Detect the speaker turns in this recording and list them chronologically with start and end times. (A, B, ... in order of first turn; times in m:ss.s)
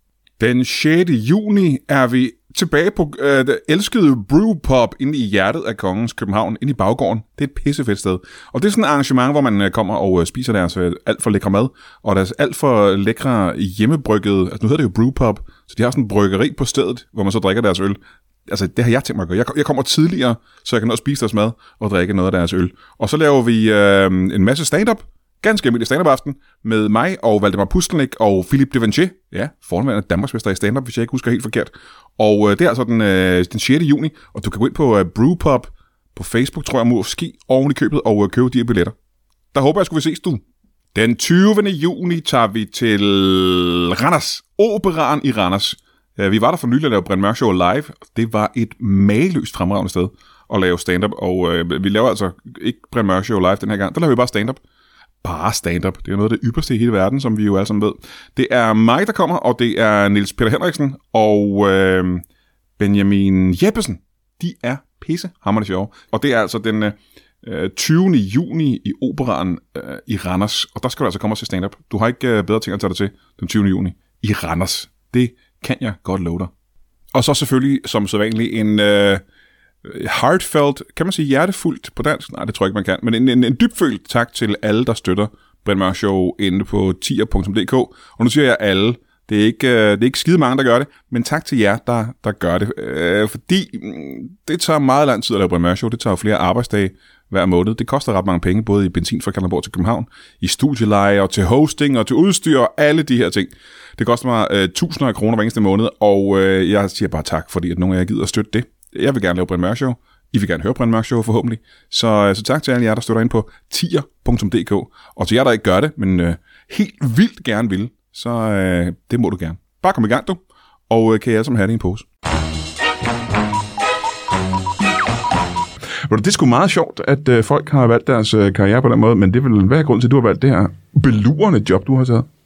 0:00.4-0:38.9 A
0:39.5-0:40.4 A
0:40.9-0:54.6 A
0:55.2-1:02.2 A
1:02.8-1:16.5 A
1:17.1-1:19.2 A
1:19.8-2:02.0 A
2:06.1-2:12.2 A